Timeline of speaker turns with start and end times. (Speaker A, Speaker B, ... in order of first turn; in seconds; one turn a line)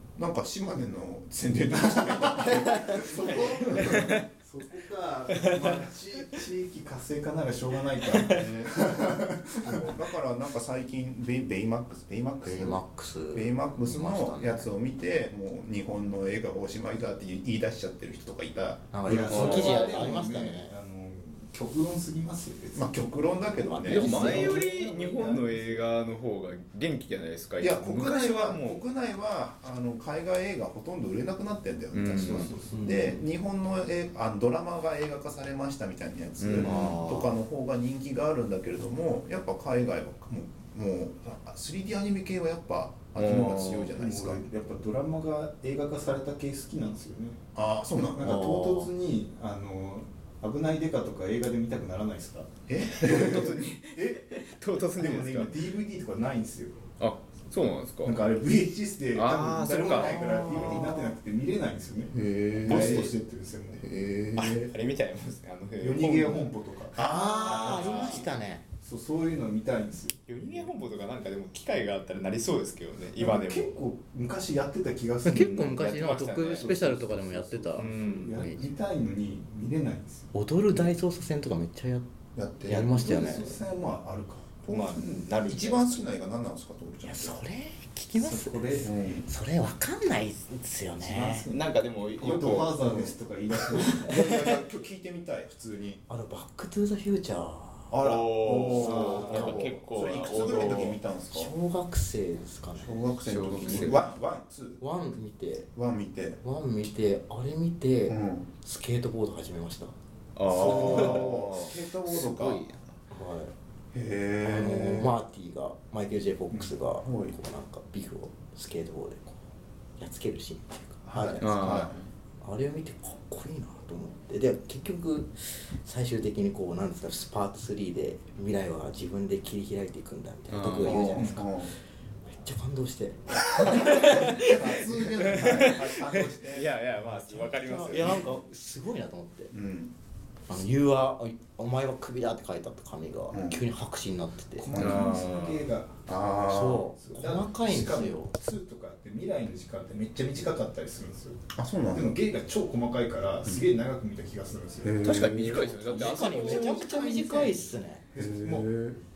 Speaker A: 0.1-4.2
Speaker B: 1.9-9.8
Speaker A: 8.3-19.9
Speaker C: 12.4-14.7
Speaker C: 18.9-20.7
Speaker B: 19.0-25.6
Speaker D: 19.1-19.7
Speaker A: 22.7-24.5
Speaker C: 23.5-25.0
Speaker D: 23.8-28.8
Speaker A: 27.6-44.5
Speaker D: 31.9-32.5
Speaker B: 32.1-33.0
Speaker C: 32.7-33.2
Speaker D: 36.4-37.0
Speaker C: 36.6-37.3
Speaker D: 43.1-43.9
Speaker B: 43.4-47.4
Speaker A: 47.5-48.5
Speaker B: 48.1-54.2
Speaker C: 48.2-48.9
Speaker A: 52.7-53.5
Speaker D: 53.0-55.6
Speaker B: 54.9-56.8
Speaker D: 57.0-58.2
Speaker B: 58.0-62.1
Speaker D: 59.1-61.0
Speaker C: 59.9-61.1
Speaker A: 62.2-63.1
Speaker D: 62.2-63.1
Speaker B: 62.6-63.9
Speaker A: 63.9-64.7
Speaker D: 64.3-66.5
Speaker B: 65.8-68.2
Speaker A: 67.0-68.3
Speaker C: 67.0-68.6
Speaker D: 67.4-68.3
Speaker B: 68.8-70.2
Speaker D: 70.3-73.8
Speaker B: 73.1-80.3
Speaker C: 75.2-78.7
Speaker D: 75.7-77.0
Speaker D: 77.7-78.4
Speaker C: 80.3-82.1
Speaker A: 82.3-82.8
Speaker C: 82.6-83.6
Speaker B: 82.7-84.6
Speaker A: 84.6-87.4
Speaker D: 84.7-86.1
Speaker C: 87.0-91.5
Speaker B: 88.1-88.9
Speaker A: 88.8-89.3
Speaker B: 91.0-91.6
Speaker D: 91.5-92.9
Speaker B: 92.2-94.4
Speaker A: 92.8-95.7
Speaker C: 94.0-94.3
Speaker B: 95.7-96.0
Speaker C: 96.1-97.9
Speaker A: 97.9-101.5
Speaker D: 98.0-101.0
Speaker C: 98.6-100.2
Speaker B: 98.8-99.2
Speaker C: 101.3-104.0
Speaker A: 102.8-104.8
Speaker D: 103.2-104.0
Speaker C: 104.8-105.7
Speaker A: 105.7-106.4
Speaker C: 106.4-109.9
Speaker A: 108.1-108.5
Speaker D: 110.3-112.8
Speaker A: 110.5-112.7
Speaker B: 110.6-111.0
Speaker C: 110.6-111.2
Speaker C: 113.1-113.5
Speaker A: 113.9-115.1
Speaker C: 114.4-119.4
Speaker A: 117.0-117.3
Speaker C: 120.0-121.9
Speaker A: 121.1-122.0
Speaker D: 121.4-122.0
Speaker C: 122.4-131.7
Speaker D: 130.5-131.1
Speaker A: 130.8-131.7
Speaker B: 131.1-131.4
Speaker C: 132.4-134.7
Speaker D: 133.7-134.2
Speaker B: 133.9-135.7
Speaker A: 134.5-136.8
Speaker D: 135.1-138.4
Speaker C: 135.4-136.1
Speaker C: 136.9-139.5
Speaker A: 137.9-138.3
Speaker A: 139.5-139.9
Speaker C: 140.5-144.6
Speaker A: 143.3-143.6
Speaker B: 144.6-146.0
Speaker A: 144.7-145.1
Speaker D: 144.7-145.7
Speaker A: 146.1-146.9
Speaker C: 146.4-148.3
Speaker B: 146.9-155.0
Speaker A: 151.5-152.1
Speaker A: 154.8-155.7
Speaker D: 155.0-156.8
Speaker C: 155.2-158.0
Speaker B: 155.7-157.6
Speaker B: 158.1-158.7
Speaker A: 158.2-158.9